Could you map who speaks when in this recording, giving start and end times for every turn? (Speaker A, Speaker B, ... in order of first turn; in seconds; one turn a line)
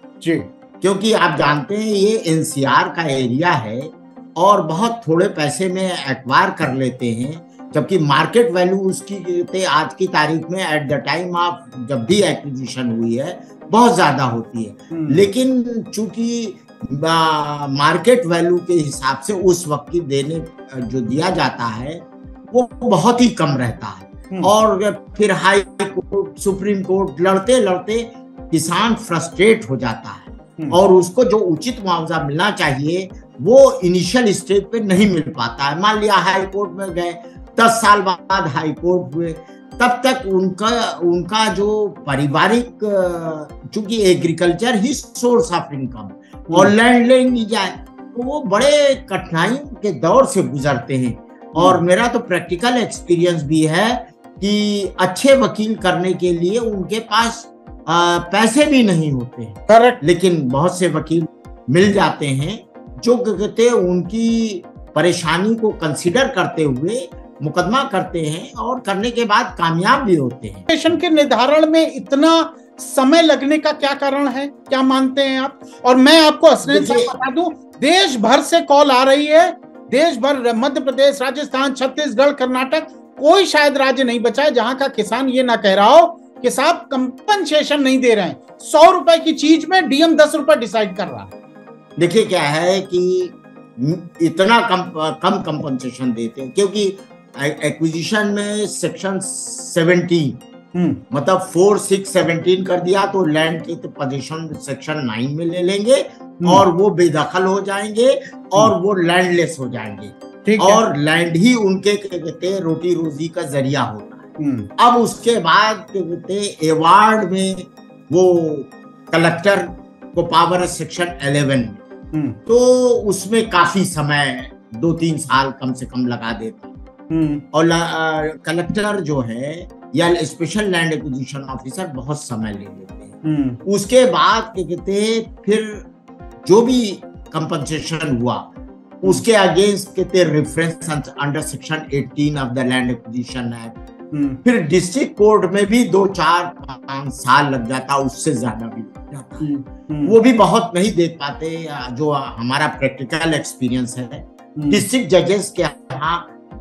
Speaker A: 0.2-0.5
Speaker B: 0.8-70.7
Speaker A: 14.9-15.2
Speaker A: 59.7-60.0
Speaker A: 70.7-91.3
Speaker B: 76.7-77.1
Speaker B: 92.0-100.4
Speaker A: 100.7-101.0
Speaker B: 101.1-114.2
Speaker A: 110.5-110.8
Speaker A: 114.4-114.7
Speaker B: 114.8-121.8
Speaker A: 122.1-122.4
Speaker B: 122.5-126.7
Speaker A: 127.1-127.4
Speaker B: 127.5-135.9
Speaker A: 133.2-133.6
Speaker B: 136.4-138.5
Speaker B: 139.0-143.8
Speaker A: 144.1-144.4
Speaker B: 144.4-149.5
Speaker A: 149.4-150.1
Speaker B: 150.0-156.3
Speaker A: 154.6-154.8